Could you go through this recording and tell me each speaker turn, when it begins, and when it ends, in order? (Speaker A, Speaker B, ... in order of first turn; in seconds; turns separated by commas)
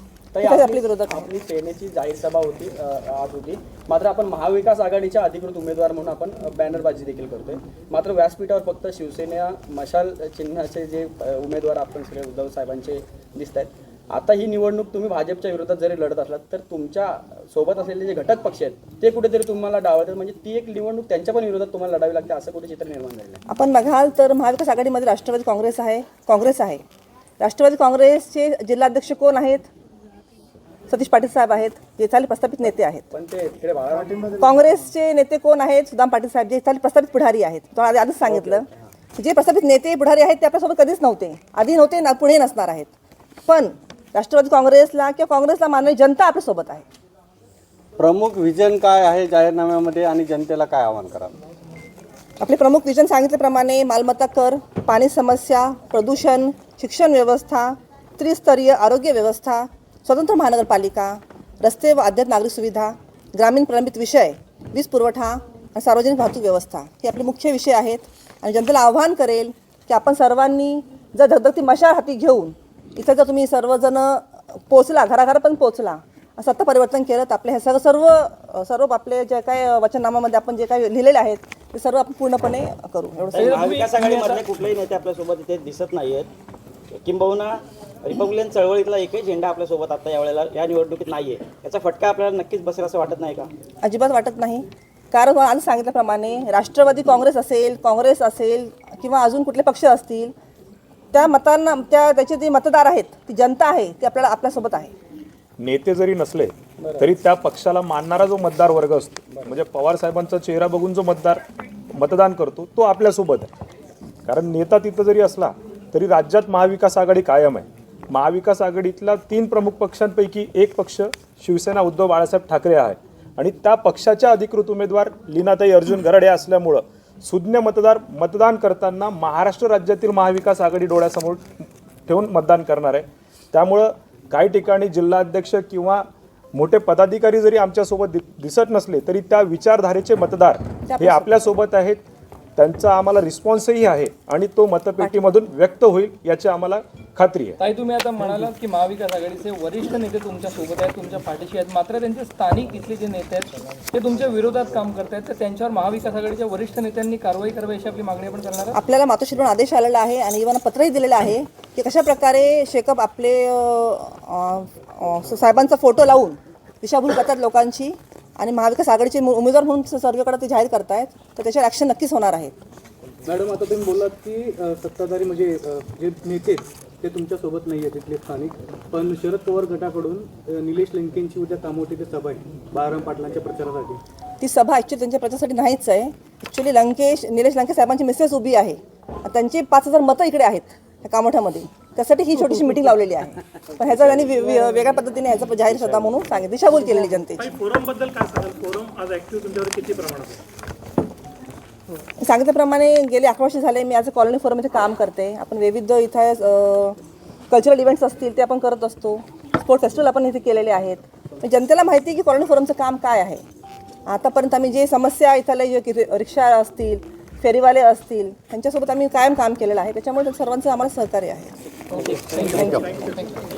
Speaker A: 0.3-23.4, Speaker B: 0.4-1.2, Speaker B: 23.5-26.8, Speaker B: 27.4-29.7, Speaker B: 30.9-33.0, Speaker A: 33.1-34.6, Speaker B: 34.4-42.9, Speaker B: 43.5-46.8, Speaker C: 48.0-51.1, Speaker D: 48.4-49.3, Speaker D: 50.9-51.3, Speaker B: 52.4-83.8, Speaker E: 83.3-86.3, Speaker F: 83.3-84.4, Speaker E: 86.9-93.5, Speaker B: 93.8-100.3, Speaker B: 101.1-104.9, Speaker G: 105.6-111.4, Speaker A: 106.8-107.1, Speaker G: 111.9-113.5, Speaker G: 114.2-131.4, Speaker G: 132.1-142.0, Speaker B: 140.9-141.5, Speaker G: 142.6-147.6, Speaker F: 147.6-158.8, Speaker B: 158.7-172.6, Speaker D: 173.3-173.9, Speaker D: 176.3-176.6, Speaker D: 179.0-179.9, Speaker D: 182.2-184.0, Speaker B: 184.4-197.5, Speaker H: 197.5-200.3, Speaker B: 202.2-207.0, Speaker B: 207.5-213.4, Speaker B: 214.1-221.5, Speaker F: 221.9-223.4, Speaker D: 222.4-222.8